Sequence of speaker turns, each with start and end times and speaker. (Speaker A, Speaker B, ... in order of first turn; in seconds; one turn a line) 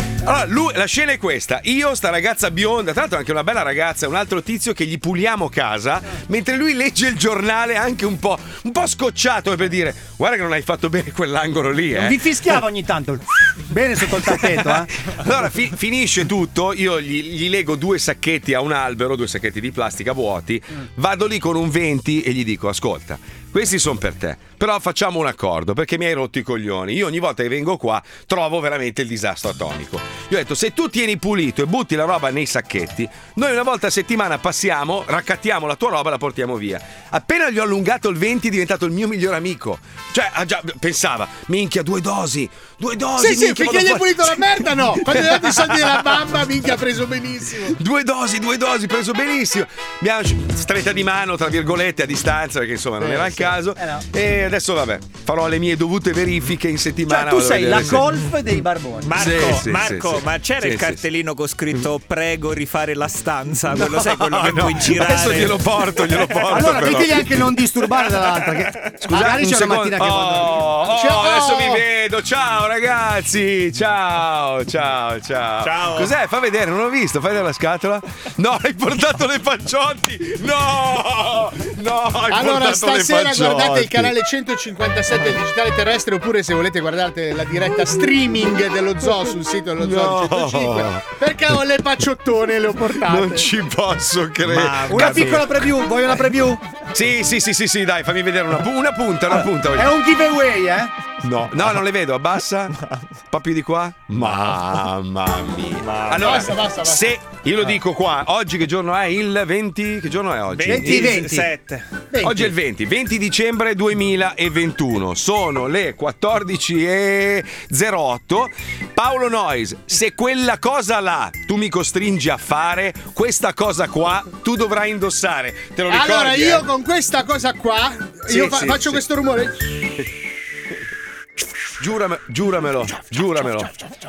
Speaker A: 0.2-12.2
Speaker B: 11.9-14.9
Speaker A: 14.5-46.1
Speaker C: 43.2-47.8
Speaker A: 47.8-58.1
Speaker B: 53.0-54.0
Speaker B: 57.1-59.3
Speaker D: 59.0-66.8
Speaker A: 59.2-61.0
Speaker A: 63.8-67.5
Speaker B: 66.5-70.7
Speaker A: 69.0-84.1
Speaker C: 70.9-71.8
Speaker D: 75.6-76.1
Speaker C: 82.3-93.5
Speaker A: 89.8-91.1
Speaker A: 93.1-95.5
Speaker D: 94.5-95.5
Speaker B: 94.8-96.6
Speaker A: 96.9-100.0
Speaker B: 99.7-100.9
Speaker A: 101.2-102.8
Speaker A: 103.3-111.3
Speaker D: 105.8-106.3
Speaker C: 106.2-107.1
Speaker D: 110.5-111.9
Speaker B: 110.7-111.5
Speaker B: 112.1-112.5
Speaker A: 112.2-126.7
Speaker C: 125.9-129.9
Speaker A: 128.3-129.0
Speaker A: 131.8-133.7